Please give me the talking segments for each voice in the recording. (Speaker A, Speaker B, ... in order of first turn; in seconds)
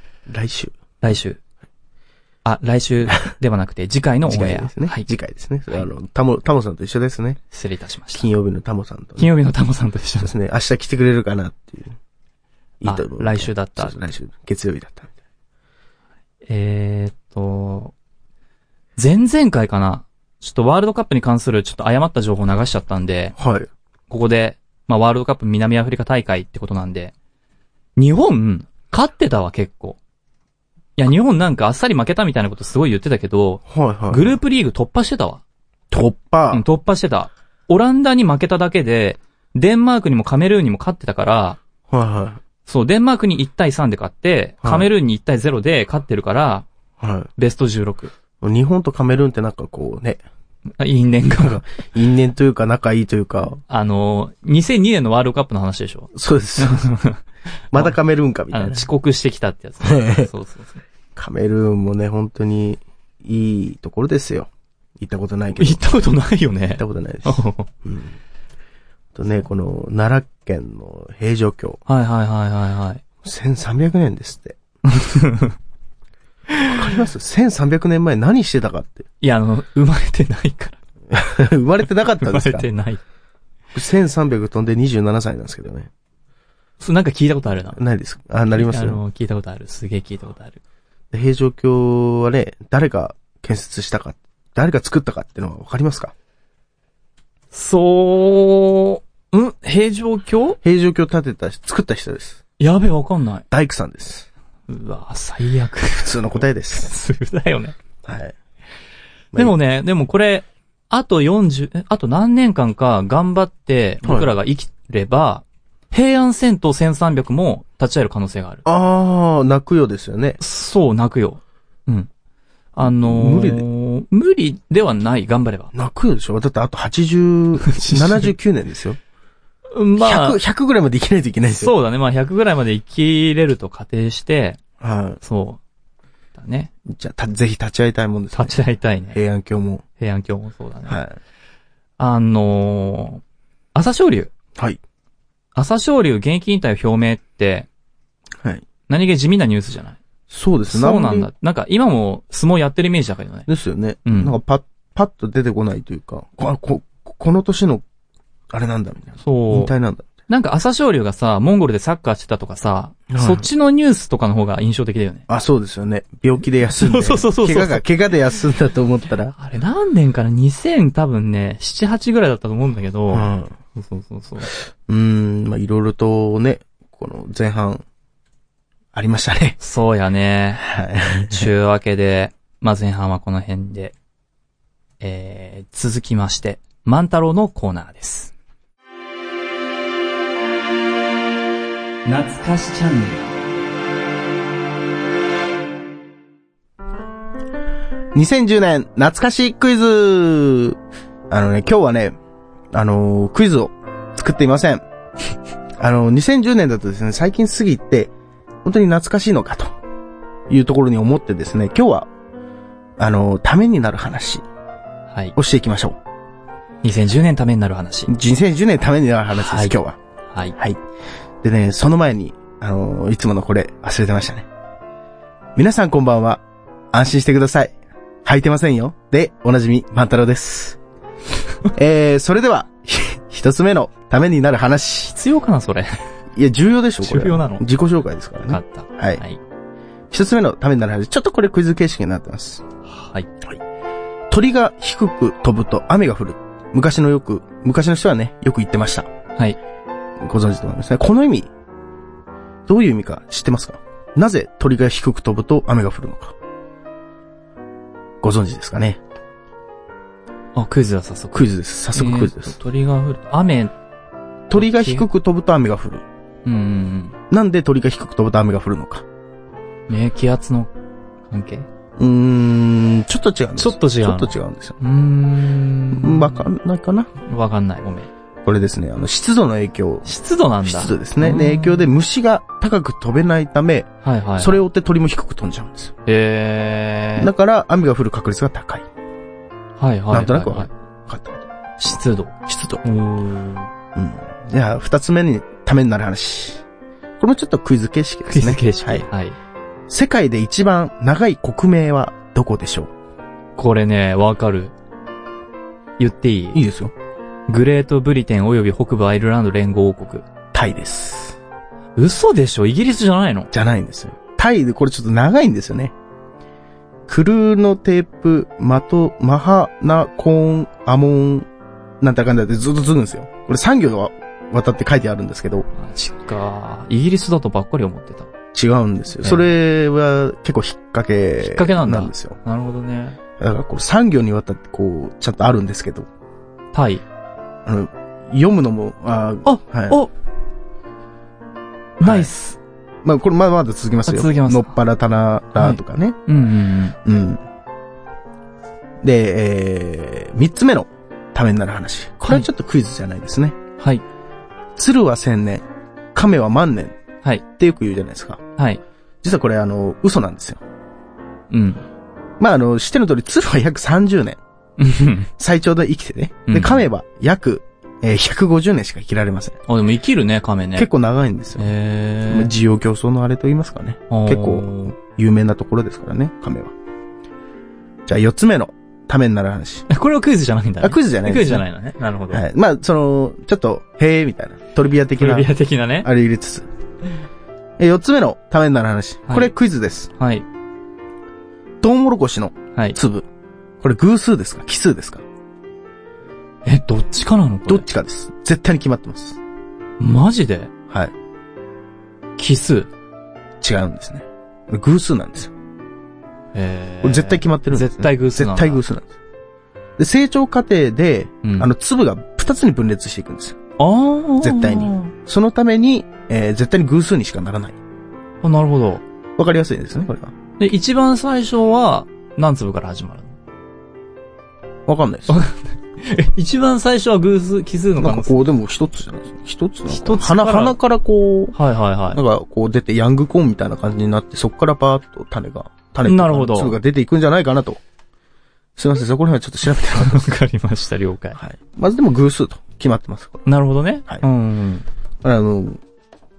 Speaker A: 0.3-0.7, 4.2-7.4, 8.1-9.3, 10.2-12.0, 12.8-15.1, 23.4-23.7, 33.7-34.4, 35.9-36.6, 41.9-42.4, 44.6-44.9, 47.0-47.3, 48.4-50.2, 51.3-53.6, 56.1-56.9, 57.7-58.9, 59.8-60.3, 61.1-65.9, 66.8-68.2, 69.1-71.8, 73.2-75.1, 76.6-79.1, 81.1-82.7, 83.7-85.9, 87.7-89.0, 91.1-96.1, 100.6-102.4, 103.5-104.3, 106.0-106.9, 108.0-108.3, 114.0-114.3, 118.7-120.4, 122.8-123.7, 125.7-129.0, 130.0-131.7, 134.8-135.2, 136.8-138.6, 139.1-139.8, 140.9-141.2, 148.4-148.6, 150.3-151.3, 153.5-157.8, 158.5-160.1, 163.1-163.5, 165.3-169.3, 173.1-173.6, 174.9-177.8, 178.9-179.6, 180.6-181.5, 198.1-200.8, 201.3-202.2, 202.7-204.8, 205.8-208.1, 208.6-209.7, 210.5-212.1, 213.0-214.4, 215.3-216.0, 218.1-220.0, 221.4-224.5, 225.6-230.8, 231.7-235.1, 236.3-239.2, 240.1-242.6, 244.3-249.1, 250.2-251.5, 252.7-256.4, 258.2-259.0, 261.3-262.6, 264.5-266.0, 267.3-269.1, 272.0-274.8, 275.9-277.1, 278.4-280.1, 280.6-285.9, 287.1-288.9, 290.1-291.4, 292.4-292.8, 293.9-296.6, 297.2-299.0, 299.9-302.9, 306.5-306.9, 310.5-311.4, 313.5-315.9, 317.1-321.5, 322.0-325.7, 328.5-332.4, 333.4-336.1, 337.6-340.0, 342.0-342.3, 343.0-346.2, 347.0-347.4, 349.0-353.6, 354.8-356.9, 357.6-358.4, 359.2-360.6, 362.4-364.4, 365.4-369.6, 370.8-371.7, 372.3-376.7, 378.1-379.9, 380.8-381.6, 382.3-385.5, 386.0-386.7, 387.8-390.1, 391.8-393.3, 393.8-395.2, 397.7-399.4, 403.6-405.5, 407.0-409.1, 410.0-413.6, 414.4-417.8, 419.4-420.3, 424.9-425.4, 428.0-431.6, 432.1-437.8, 438.8-440.3, 441.4-443.4, 445.2-445.8
Speaker B: 1.0-1.4, 2.4-5.1, 7.5-8.3, 9.2-10.3, 12.8-13.9, 16.5-17.9, 19.0-23.4, 24.1-27.1, 28.0-30.0, 31.0-35.4, 36.5-41.6, 42.7-46.6, 47.4-48.1, 50.8-51.6, 53.7-57.2, 58.5-60.8, 65.5-67.7, 71.9-73.0, 75.0-75.5, 79.2-80.8, 82.2-83.0, 86.8-87.8, 88.5-90.6, 97.5-100.6, 102.6-103.4, 104.7-107.8, 109.3-118.6, 120.4-122.1, 122.8-125.7, 127.7-128.3, 129.7-130.4, 131.5-134.6, 135.2-135.6, 136.3-136.7, 138.3-139.2, 140.0-141.0, 142.0-143.2, 143.7-144.3, 145.5-147.7, 148.9-150.0, 150.7-153.5, 154.1-154.3, 159.2-159.7, 160.3-165.2, 166.8-167.8, 169.4-174.5, 179.6-180.7, 181.3-183.9, 185.0-188.3, 192.0-193.2, 216.8-218.1, 219.3-219.8, 235.1-236.0, 237.0-237.7, 238.5-239.4, 242.9-243.3, 260.5-263.7, 264.5-265.1, 266.4-267.1, 269.9-270.7, 271.3-271.7, 273.6-276.5, 277.2-278.1, 280.0-281.9, 284.0-284.6, 286.1-287.3, 289.8-290.7, 291.8-293.7, 298.3-299.4, 303.6-304.7, 306.0-306.6, 307.5-310.2, 312.0-313.5, 325.7-328.3, 331.4-333.2, 336.7-337.0, 339.4-340.1, 342.0-342.6, 344.1-344.8, 345.6-346.9, 361.5-361.8, 364.8-365.3, 366.5-366.8, 369.7-370.9, 371.6-372.5, 374.1-374.9, 379.9-382.4, 385.2-386.1, 389.3-389.5, 390.2-390.4, 396.6-397.9, 400.0-400.7, 402.4-402.9, 406.5-408.8, 411.4-411.7, 413.8-415.1, 418.4-419.0, 420.6-423.3, 425.3-428.4, 429.9-430.8, 431.5-432.2, 436.0-436.8, 439.8-441.4, 443.4-444.9